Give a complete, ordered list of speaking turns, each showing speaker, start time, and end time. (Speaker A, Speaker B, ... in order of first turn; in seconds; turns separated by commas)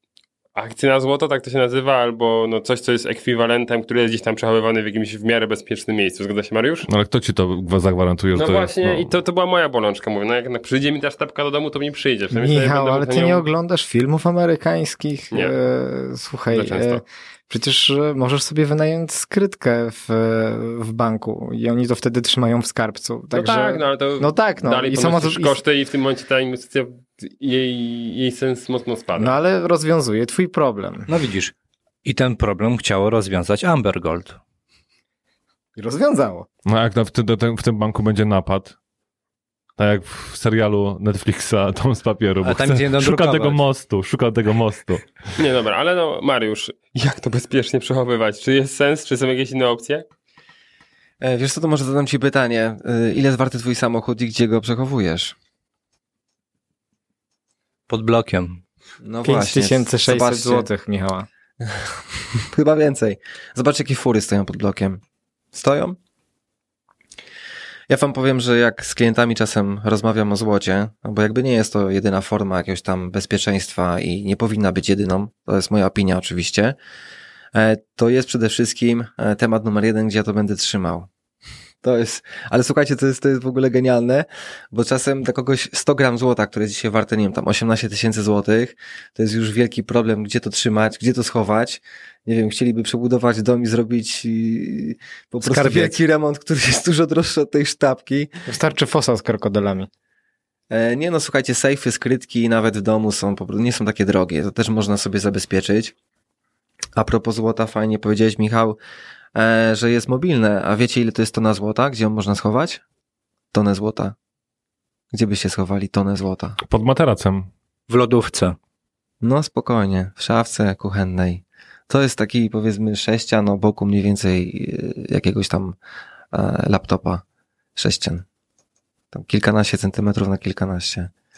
Speaker A: 0.6-6.9, Speaker B: 6.9-9.1, Speaker A: 8.3-13.4, Speaker C: 12.3-25.6, Speaker A: 16.5-17.0, Speaker A: 23.3-29.3, Speaker C: 29.2-31.1, Speaker D: 31.1-31.5, Speaker D: 32.0-34.4, Speaker C: 35.8-36.5, Speaker B: 36.7-38.8, Speaker B: 39.8-45.1, Speaker D: 42.4-43.6, Speaker A: 45.4-50.0, Speaker E: 51.2-55.4, Speaker D: 57.9-58.6, Speaker E: 59.0-60.7, Speaker C: 59.2-61.3, Speaker E: 61.6-65.0, Speaker E: 65.5-66.0, Speaker E: 67.9-76.8, Speaker E: 77.5-81.1, Speaker E: 81.8-98.3, Speaker D: 95.4-96.0, Speaker C: 98.5-99.9, Speaker E: 100.7-105.9, Speaker E: 107.0-108.8, Speaker E: 109.3-112.8, Speaker E: 113.5-114.2, Speaker E: 115.1-116.6, Speaker B: 116.6-117.5, Speaker D: 117.9-118.6, Speaker E: 119.2-125.8, Speaker E: 126.3-127.2, Speaker E: 127.8-128.2, Speaker E: 129.1-131.1